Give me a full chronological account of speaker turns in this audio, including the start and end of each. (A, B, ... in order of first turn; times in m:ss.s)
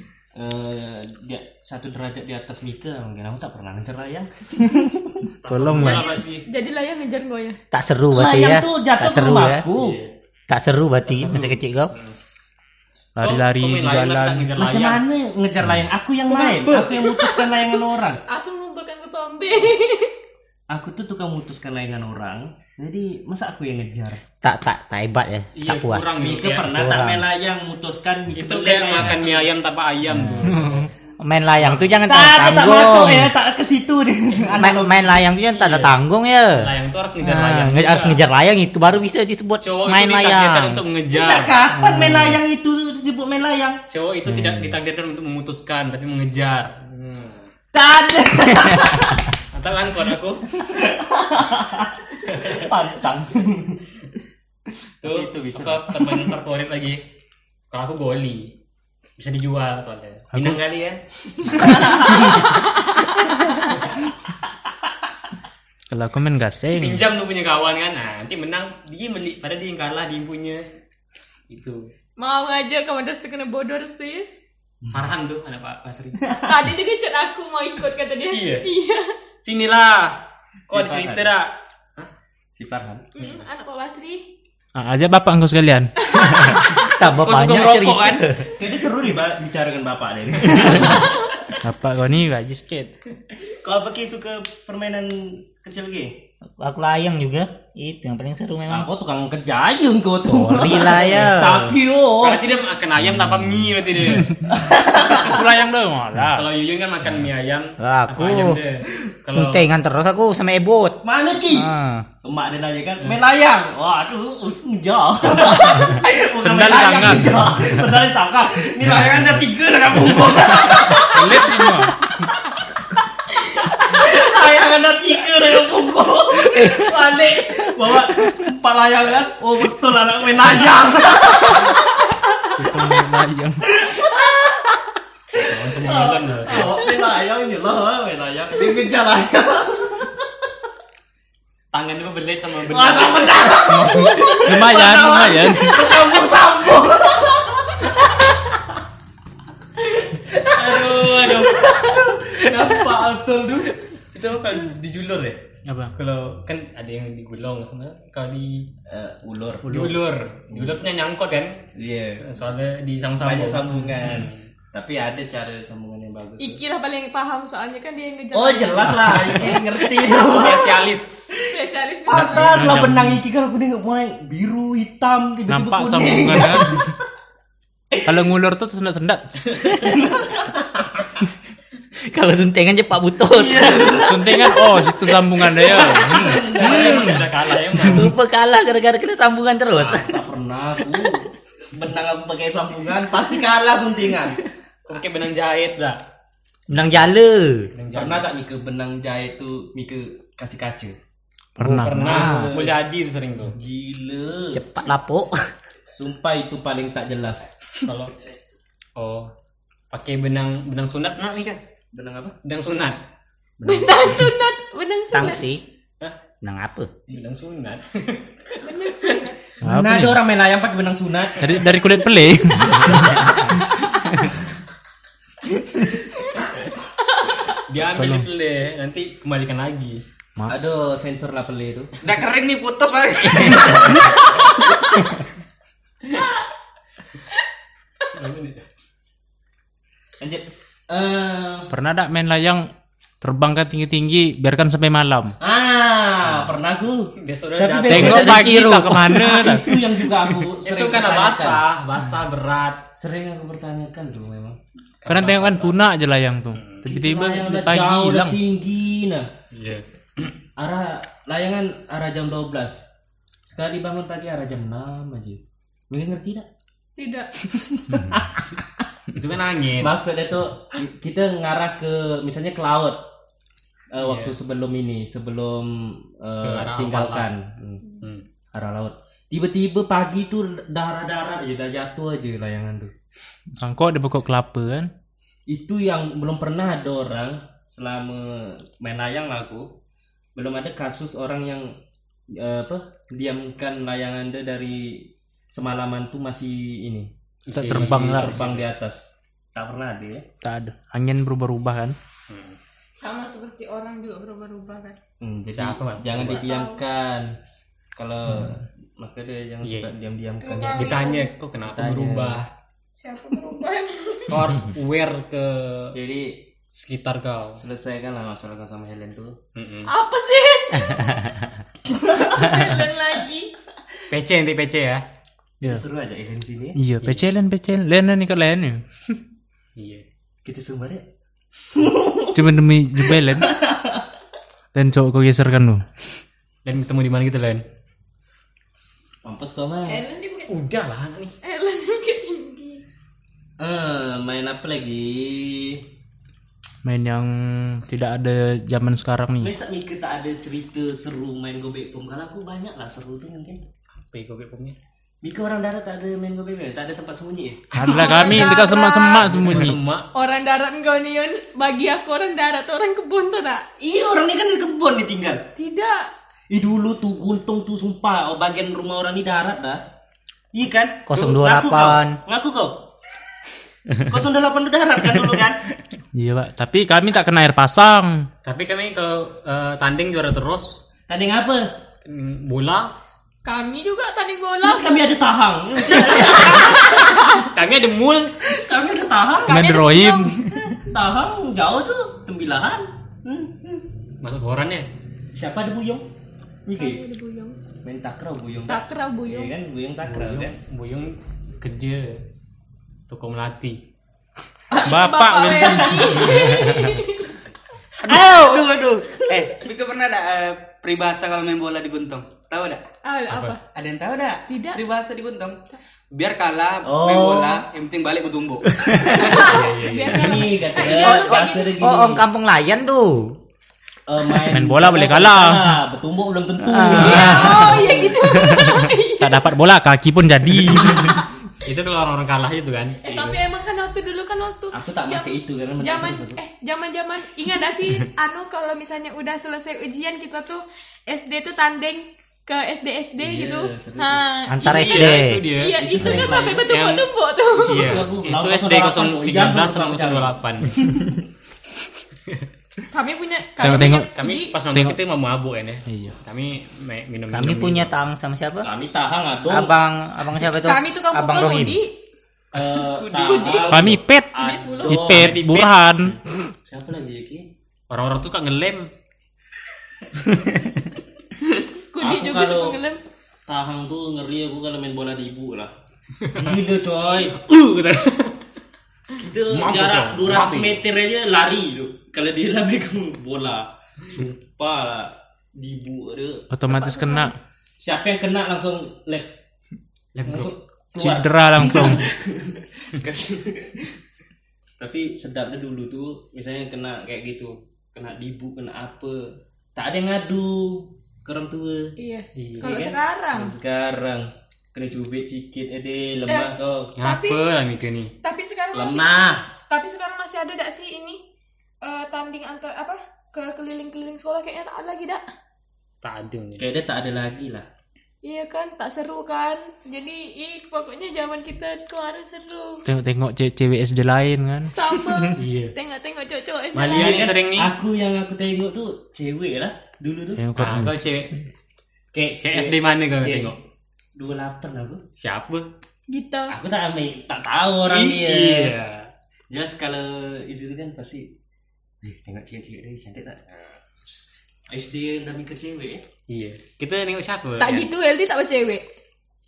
0:00.3-0:05.3 A
0:05.4-0:06.5 B
0:05.4-0:06.1 C
0:05.8-0:07.6 D
0:07.7-0:09.7 E
0:08.1-0:10.0 A
0:09.7-0:10.1 B
0:10.5-0:11.9 E
0:11.1-0:12.2 B
0:13.0-0:15.0 B
0:13.2-0:14.5 C
0:14.6-0:18.2 A
0:16.3-0:16.9 B
0:16.3-0:20.1 D
0:20.7-0:24.2 A
0:24.4-0:26.1 E
0:25.5-0:26.7 B
0:26.2-0:29.5 A
0:26.7-0:27.2 E
0:28.3-0:30.9 B
0:30.1-0:30.9 C
0:31.2-0:33.3 E
0:31.6-0:31.9 B
0:32.1-0:35.2 A
0:34.6-0:36.7 E
0:35.5-0:36.0 B
0:36.6-0:38.2 B
0:37.2-0:40.8 E
0:39.6-0:41.6 B
0:41.1-0:43.8 A
0:41.8-0:42.4 C
0:43.9-0:47.5 B
0:44.3-0:44.7 C
0:47.7-0:49.3 A
0:49.5-0:50.5 B
0:50.6-0:53.8 A
0:52.3-0:52.7 B
0:55.0-0:56.3 A
0:55.0-0:57.0 B
0:57.7-0:58.5 B
0:59.2-1:02.5 B
1:00.3-1:00.6 C
1:01.7-1:03.8 D
1:05.9-1:07.0 C
1:06.8-1:10.6 B
1:11.5-1:11.9 B
1:12.2-1:14.2 D
1:14.8-1:15.1 A
1:14.9-1:16.4 B
1:16.4-1:19.1 D
1:18.3-1:18.6 B
1:19.4-1:20.2 B
1:20.7-1:21.3 A
1:20.7-1:22.1 B
1:22.5-1:23.0 A
1:23.1-1:24.3 D
1:24.7-1:25.9 C
1:26.0-1:26.9 D
1:26.4-1:28.5 E
1:26.8-1:28.3 B
1:28.6-1:31.4 A
1:31.6-1:32.9 C
1:33.4-1:36.2 A
1:36.6-1:38.9 E
1:38.7-1:42.4 A
1:40.2-1:41.8 E
1:42.2-1:44.4 B
1:44.5-1:45.4 A
1:45.2-1:46.5 C
1:46.3-1:49.6 B
1:47.8-1:48.6 E
1:49.3-1:52.0 E
1:51.0-1:51.7 A
1:52.2-2:01.9 A
1:56.4-1:57.8 C
2:01.0-2:02.0 C
2:03.8-2:11.7 A
2:06.5-2:06.9 E
2:12.6-2:13.7 C
2:13.7-2:14.8 A
2:15.3-2:20.2 A
2:15.4-2:16.7 B
2:21.7-2:23.7 B
2:22.7-2:28.3 A
2:24.4-2:25.9 C
2:30.2-2:33.8 A
2:30.4-2:31.9 B
2:34.1-2:35.4 B
2:35.6-2:35.9 C
2:35.9-2:38.7 B
2:38.9-2:39.9 A
2:39.7-2:41.6 B
2:40.5-2:40.8 A
2:41.8-2:42.2 A
2:42.2-2:44.5 B
2:43.2-2:46.6 A
2:46.4-2:49.5 D
2:48.3-2:51.4 A
2:50.0-2:51.3 B
2:51.3-2:52.8 D
2:52.1-2:57.0 A
2:52.1-2:53.2 C
2:55.5-2:56.8 C
2:58.0-2:59.5 C
2:59.5-2:59.8 B
2:59.8-3:00.9 A
3:02.0-3:05.4 E
3:03.3-3:04.5 A
3:04.0-3:07.2 C
3:05.6-3:08.1 B
3:05.7-3:07.3 A
3:07.8-3:10.1 E
3:07.8-3:08.1 C
3:09.8-3:14.4 A
3:14.9-3:16.0 B
3:16.7-3:17.7 E
3:17.7-3:18.3 B
3:17.9-3:20.9 A
3:21.6-3:22.1 C
3:21.6-3:22.6 E
3:21.7-3:23.5 B
3:22.0-3:22.8 A
3:23.5-3:24.6 A
3:24.5-3:25.5 E
3:25.9-3:27.8 A
3:27.8-3:28.1 B
3:29.0-3:29.3 B
3:29.9-3:31.6 B
3:31.9-3:32.4 A
3:32.4-3:33.0 B
3:33.6-3:34.3 A
3:33.6-3:35.5 D
3:35.1-3:35.6 E
3:36.4-3:36.9 E
3:37.1-3:38.3 B
3:38.5-3:39.4 D
3:39.6-3:40.2 C
3:39.6-3:41.7 A
3:41.4-3:43.4 C
3:43.5-3:43.9 D
3:45.5-3:46.7 A
3:47.1-3:47.6 D
3:47.7-3:50.0 B
3:47.8-3:48.3 C
3:50.5-3:52.0 A
3:52.0-3:54.0 F
3:58.1-3:58.6 B
4:00.2-4:01.7 A
4:01.7-4:02.7 C
4:03.2-4:05.4 C
4:05.4-4:11.6 A
4:07.2-4:08.4 B
4:07.9-4:10.4 C
4:07.9-4:09.2 E
4:10.6-4:12.8 B
4:12.9-4:14.6 A
4:15.0-4:15.8 B
4:15.1-4:18.4 C
4:16.6-4:16.8 B
4:16.8-4:19.3 A
4:19.5-4:20.3 B
4:20.6-4:22.8 A
4:23.4-4:26.5 A
4:27.0-4:27.3 D
4:27.4-4:28.9 A
4:29.1-4:29.9 B
4:29.7-4:33.0 A
4:33.9-4:37.8 A
4:34.0-4:34.4 B
4:36.4-4:37.3 B
4:38.0-4:38.2 B
4:38.5-4:42.9 A
4:43.6-4:44.9 C
4:45.5-4:49.7 A
4:50.3-4:51.8 A
4:52.3-4:59.0 A
4:57.5-4:58.7 B
4:57.5-4:58.5 C
4:59.5-5:00.2 A
5:00.4-5:02.0 C
5:02.3-5:02.6 B
5:03.0-5:05.0 D
5:05.2-5:07.4 A
5:05.5-5:06.4 B
5:06.3-5:06.8 D
5:08.0-5:11.1 A
5:09.6-5:09.9 B
5:10.4-5:11.3 D
5:10.7-5:12.5 B
5:11.6-5:12.4 A
5:13.0-5:14.4 D
5:14.3-5:16.0 B
5:15.9-5:16.4 A
5:16.7-5:17.6 B
5:17.6-5:19.4 A
5:19.6-5:19.9 B
5:19.9-5:21.3 D
5:22.1-5:22.3 A
5:22.1-5:23.5 D
5:24.1-5:25.0 B
5:25.6-5:26.8 A
5:26.8-5:28.8 C
5:29.8-5:30.0 B
5:30.4-5:31.0 A
5:31.7-5:32.4 A
5:32.3-5:33.6 C
5:33.1-5:34.0 A
5:34.7-5:35.8 C
5:36.6-5:37.6 B
5:39.2-5:40.0 A
5:39.9-5:40.5 D
5:40.5-5:41.3 B
5:41.4-5:42.8 D
5:43.6-5:45.8 A
5:46.8-5:49.5 C
5:49.4-5:53.6 A
5:54.1-5:54.8 B
5:55.2-5:57.6 A
5:57.7-5:58.6 B
5:57.7-5:59.8 C
5:57.8-5:59.3 D
5:59.2-6:00.1 B
5:59.4-5:59.8 A
6:00.1-6:03.6 D
6:03.8-6:05.4 A
6:05.6-6:06.1 D
6:06.5-6:09.8 A
6:10.5-6:12.8 A
6:11.1-6:12.2 E
6:14.1-6:15.6 A
6:16.1-6:18.3 C
6:18.4-6:20.8 B
6:21.1-6:21.7 A
6:22.0-6:22.9 B
6:23.4-6:25.0 D
6:24.6-6:27.2 A
6:26.1-6:27.5 D
6:26.7-6:28.4 B
6:28.4-6:29.6 A
6:29.4-6:30.4 D
6:29.4-6:30.6 C
6:30.6-6:33.9 A
6:34.2-6:34.9 B
6:35.3-6:36.0 A
6:36.6-6:37.0 A
6:36.8-6:37.6 D
6:37.8-6:40.6 A
6:38.7-6:39.5 D
6:40.0-6:42.2 B
6:43.1-6:43.8 B
6:44.8-6:47.4 D
6:44.8-6:46.2 C
6:45.5-6:46.4 A
6:48.1-6:49.3 A
6:48.1-6:49.6 D
6:48.1-6:52.8 F
6:53.0-6:53.6 D
6:53.3-6:53.6 B
6:53.7-6:55.6 F
6:54.5-6:54.8 D
6:56.1-6:58.7 F
6:56.8-6:57.6 A
6:58.9-6:59.2 E
6:59.0-7:01.7 D
6:59.3-7:00.5 B
7:00.1-7:02.2 A
7:00.8-7:03.4 E
7:04.1-7:08.1 A
7:04.5-7:05.8 C
7:06.6-7:08.9 E
7:06.9-7:09.5 D
7:09.2-7:11.2 C
7:11.0-7:11.2 D
7:11.6-7:13.0 B
7:13.0-7:28.0 D
7:13.0-7:13.4 A
7:14.7-7:16.4 A
7:23.2-7:24.2 A
7:24.5-7:25.5 E
7:24.6-7:27.0 B
7:25.7-7:26.7 A
7:27.5-7:31.1 A
7:27.7-7:30.8 B
7:32.9-7:34.6 D
7:33.6-7:34.1 C
7:33.6-7:37.9 B
7:34.7-7:35.0 C
7:35.9-7:36.2 C
7:37.3-7:38.7 E
7:38.6-7:39.7 A
7:39.5-7:41.8 E
7:40.4-7:42.0 D
7:42.5-7:45.5 A
7:43.1-7:45.1 D
7:43.6-7:44.3 C
7:44.8-7:46.2 C
7:45.0-7:45.8 B
7:46.0-7:47.5 A
7:47.9-7:48.9 B
7:51.9-7:53.0 D
7:52.0-7:52.8 A
7:53.5-7:55.7 A
7:56.3-7:57.4 A
7:57.3-7:58.4 B
7:59.2-8:06.5 A
7:59.5-8:00.8 B
8:06.5-8:07.3 C
8:06.7-8:07.3 D
8:07.8-8:09.3 A
8:10.1-8:10.5 B
8:10.2-8:13.9 A
8:11.0-8:12.0 C
8:14.7-8:21.9 A
8:22.0-8:23.6 D
8:22.4-8:22.7 B
8:22.5-8:27.0 A
8:26.3-8:27.4 D
8:27.0-8:28.1 B
8:28.2-8:29.1 D
8:28.7-8:29.4 A
8:29.7-8:31.2 D
8:31.8-8:35.2 D
8:36.0-8:36.6 B
8:36.6-8:37.6 A
8:38.2-8:42.9 D
8:42.8-8:44.7 C
8:44.7-8:47.2 D
8:45.3-8:45.7 B
8:46.7-8:47.7 B
8:46.9-8:50.4 A
8:50.3-8:51.0 C
8:50.6-8:51.3 B
8:52.1-8:53.6 A
8:52.4-8:53.6 B
8:54.2-8:55.0 A
8:55.2-8:55.7 B
8:56.1-8:56.5 D
8:56.5-8:58.8 A
8:57.9-8:59.1 B
8:59.5-9:01.3 A
9:02.0-9:04.0 A
9:04.7-9:06.0 A
9:06.3-9:07.9 B
9:07.6-9:08.8 D